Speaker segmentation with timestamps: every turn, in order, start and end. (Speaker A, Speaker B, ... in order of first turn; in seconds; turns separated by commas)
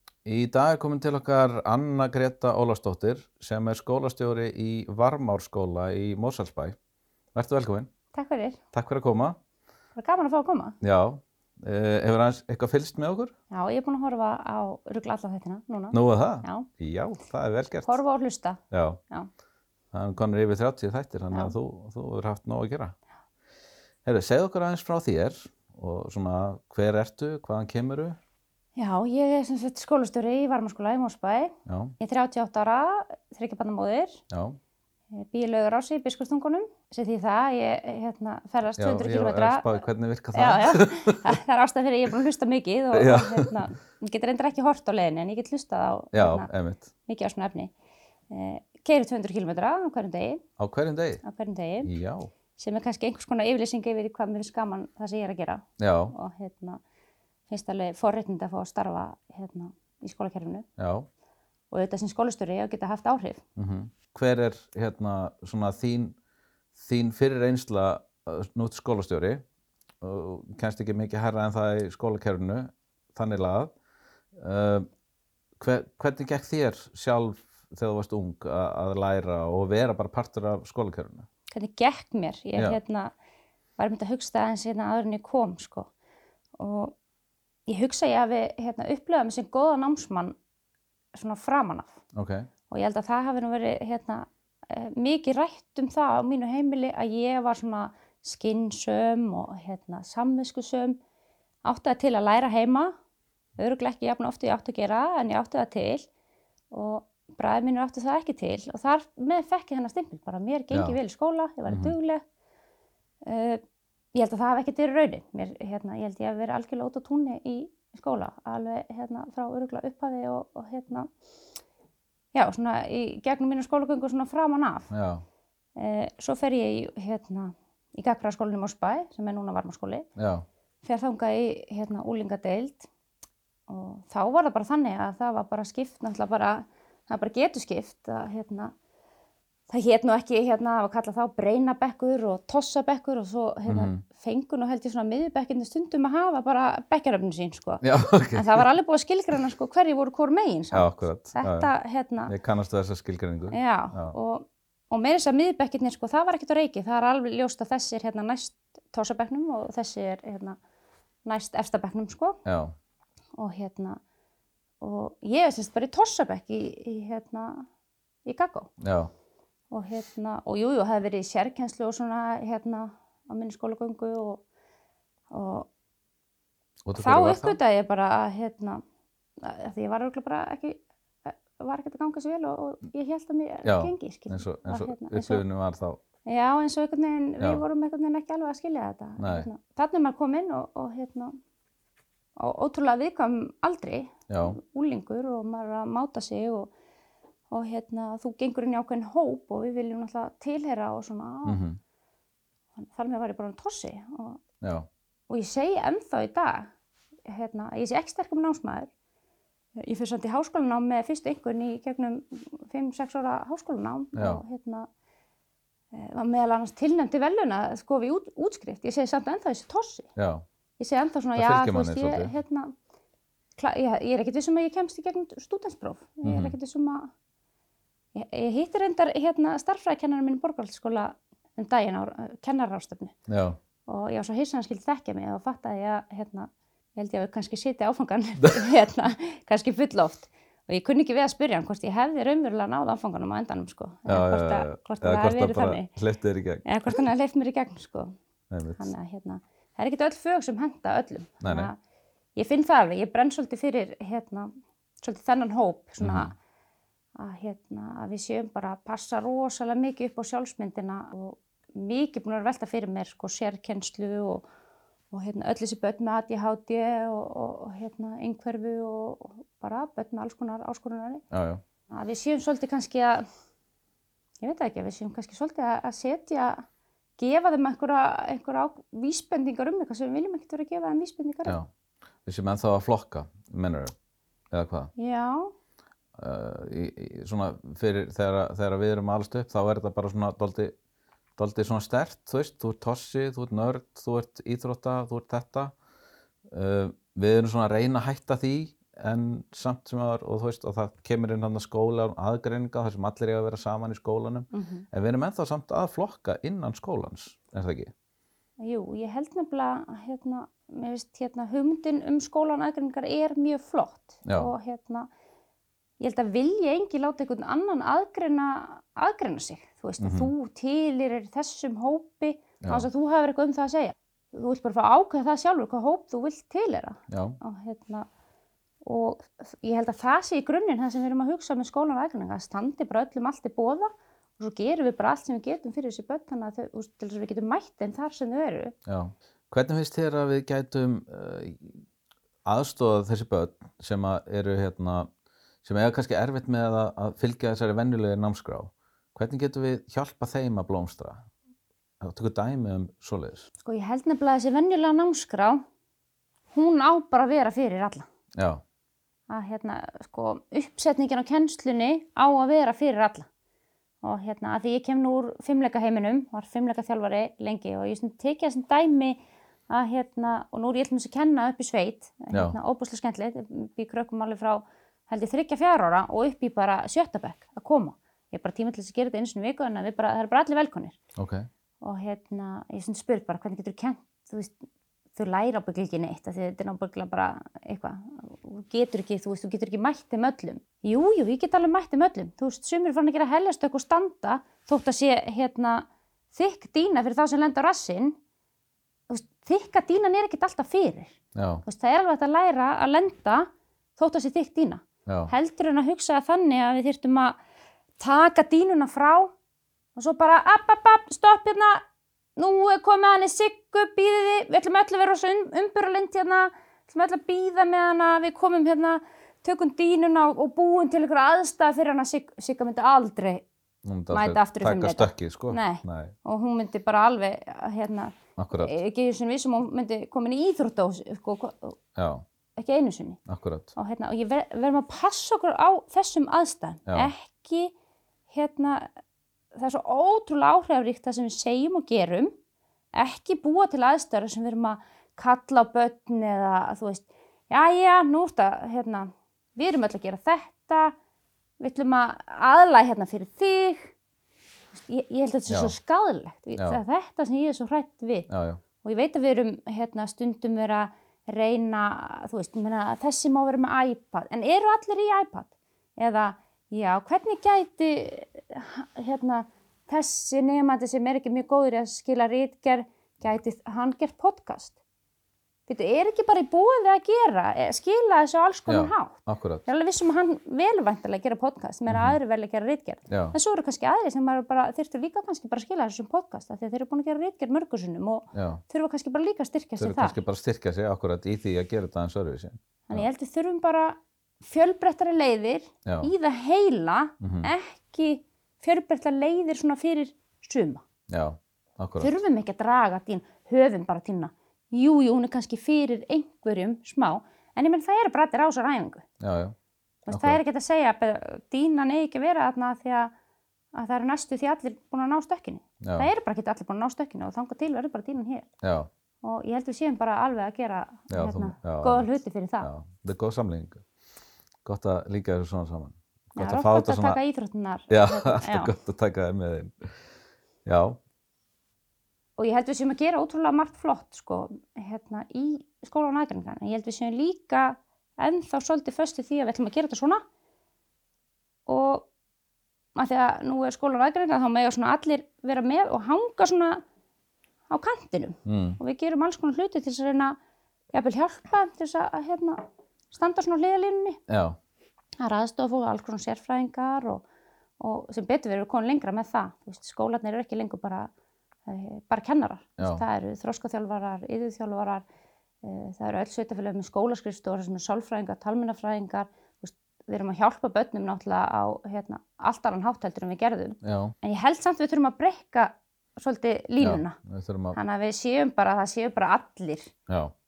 Speaker A: 0.2-6.8, Speaker A: 7.3-7.9, Speaker B: 8.1-8.6, Speaker A: 8.7-9.4, Speaker B: 10.0-10.8, Speaker A: 10.8-13.3, Speaker B: 13.5-16.7, Speaker A: 15.9-18.0, Speaker B: 17.8-19.3, Speaker A: 18.7-19.0, Speaker A: 19.9-23.0, Speaker A: 24.1-28.2, Speaker B: 28.8-34.2, Speaker A: 31.7-31.9, Speaker A: 34.3-34.6, Speaker B: 35.1-39.8, Speaker A: 38.7-41.3, Speaker B: 40.3-46.5, Speaker A: 42.9-43.6, Speaker A: 46.1-46.9, Speaker B: 47.1-47.7, Speaker B: 48.3-50.4, Speaker A: 50.6-51.2, Speaker B: 51.2-51.9, Speaker A: 51.8-52.3, Speaker B: 52.6-56.8, Speaker A: 55.8-56.1, Speaker B: 57.5-60.6, Speaker A: 60.8-61.1, Speaker B: 61.7-63.4, Speaker A: 63.6-66.2, Speaker A: 66.8-69.4, Speaker A: 70.0-73.7, Speaker A: 74.3-74.9, Speaker A: 75.6-81.3, Speaker B: 81.5-83.1, Speaker B: 83.8-85.9, Speaker B: 86.6-87.0, Speaker B: 87.7-90.3, Speaker B: 91.1-92.0, Speaker A: 92.1-92.5, Speaker B: 92.7-101.0, Speaker B: 101.7-102.9, Speaker B: 103.6-106.1, Speaker B: 106.7-112.2, Speaker A: 110.7-111.0, Speaker A: 111.7-112.0, Speaker B: 113.3-113.6, Speaker B: 114.2-121.1, Speaker B: 122.3-124.9, Speaker A: 124.9-125.2, Speaker B: 125.8-130.1, Speaker A: 130.2-130.4, Speaker B: 130.8-132.9, Speaker B: 133.7-138.7, Speaker B: 139.7-152.3, Speaker A: 143.7-144.0, Speaker A: 147.8-148.6, Speaker A: 150.7-151.7, Speaker A: 152.3-154.2, Speaker B: 153.5-160.6, Speaker B: 161.2-162.4, Speaker A: 162.4-162.8, Speaker B: 163.4-164.0, Speaker B: 164.8-167.7, Speaker B: 168.2-168.7, Speaker A: 168.8-169.1, Speaker B: 169.7-174.4, Speaker B: 175.3-175.7, Speaker A: 176.8-177.6, Speaker B: 177.0-178.8, Speaker B: 179.4-185.4, Speaker A: 183.6-186.0, Speaker B: 186.3-191.4, Speaker A: 189.2-189.5, Speaker B: 192.4-196.7, Speaker A: 194.3-194.6, Speaker B: 197.5-201.6, Speaker A: 201.4-201.8, Speaker B: 202.8-204.4, Speaker A: 204.6-204.9, Speaker B: 205.3-206.7, Speaker B: 207.3-208.9, Speaker B: 209.8-214.9, Speaker A: 214.2-214.4, Speaker B: 215.9-220.1, Speaker A: 220.2-220.4, Speaker B: 220.8-222.7, Speaker A: 221.3-222.3, Speaker B: 223.6-227.1, Speaker A: 226.2-226.6, Speaker B: 228.2-233.2, Speaker A: 233.3-233.6, Speaker B: 233.9-245.9, Speaker A: 244.1-247.1, Speaker B: 246.7-248.2, Speaker A: 248.5-248.9, Speaker B: 248.8-251.8, Speaker A: 251.4-251.7, Speaker B: 252.4-254.5, Speaker B: 255.0-256.3, Speaker A: 256.0-256.3, Speaker B: 257.2-264.4, Speaker B: 265.1-271.2, Speaker A: 271.3-271.6, Speaker B: 271.9-273.2, Speaker B: 274.4-276.6, Speaker B: 277.2-281.6, Speaker A: 282.3-283.9, Speaker A: 284.5-284.9, Speaker B: 285.0-285.5, Speaker A: 286.2-290.8, Speaker A: 291.4-295.7, Speaker A: 296.5-307.9, Speaker B: 304.5-304.9, Speaker B: 308.6-315.1, Speaker A: 314.2-314.5, Speaker B: 316.0-328.1, Speaker A: 320.0-320.3, Speaker A: 322.6-322.9, Speaker A: 327.1-327.4, Speaker B: 328.9-338.8, Speaker A: 338.9-341.9, Speaker A: 342.4-345.1, Speaker A: 345.6-351.3, Speaker A: 352.0-353.5, Speaker B: 353.6-355.6, Speaker B: 356.5-358.1, Speaker A: 358.4-358.6, Speaker B: 359.3-363.3, Speaker B: 364.0-369.2, Speaker B: 369.7-381.0, Speaker A: 372.3-372.6, Speaker A: 381.2-381.5, Speaker B: 381.8-384.6, Speaker B: 385.1-398.2, Speaker B: 399.1-407.4, Speaker A: 401.4-401.6, Speaker A: 405.1-405.3, Speaker B: 408.0-409.3, Speaker B: 410.0-411.8, Speaker B: 412.4-423.4, Speaker A: 423.8-426.1, Speaker B: 424.1-431.8, Speaker A: 428.4-428.8, Speaker A: 432.0-432.2, Speaker B: 432.6-433.2, Speaker A: 433.3-433.7, Speaker B: 433.8-437.7, Speaker A: 436.9-437.1, Speaker B: 438.3-438.9, Speaker B: 439.6-442.3, Speaker B: 443.0-450.9, Speaker B: 451.6-453.9, Speaker B: 454.7-458.3, Speaker A: 455.5-455.7, Speaker A: 456.6-456.8, Speaker A: 458.3-458.6, Speaker B: 458.8-474.8, Speaker B: 475.7-490.2, Speaker A: 478.7-479.6, Speaker A: 481.9-482.2, Speaker A: 483.1-483.4, Speaker A: 488.3-488.6, Speaker A: 489.8-493.1, Speaker B: 492.9-500.8, Speaker A: 495.9-496.1, Speaker A: 497.2-497.5, Speaker A: 501.1-502.1, Speaker B: 502.0-509.0, Speaker A: 509.2-509.6, Speaker B: 510.1-513.1, Speaker A: 510.1-510.4, Speaker B: 513.7-518.5, Speaker A: 515.8-516.1, Speaker A: 518.6-518.9, Speaker B: 519.2-522.7, Speaker A: 521.1-522.1, Speaker A: 522.6-523.8, Speaker A: 524.6-527.2, Speaker B: 526.4-528.7, Speaker A: 527.9-530.1, Speaker A: 530.6-531.0, Speaker B: 532.4-540.2, Speaker B: 541.7-542.1, Speaker B: 543.0-546.8, Speaker B: 547.7-550.4, Speaker A: 548.5-548.8, Speaker B: 550.9-554.2, Speaker A: 554.3-554.6, Speaker B: 555.2-557.2, Speaker B: 557.8-561.1, Speaker B: 561.7-565.0, Speaker A: 562.8-563.0, Speaker B: 565.6-577.2, Speaker A: 573.8-574.1, Speaker A: 576.8-577.8, Speaker B: 577.7-579.9, Speaker A: 580.1-580.3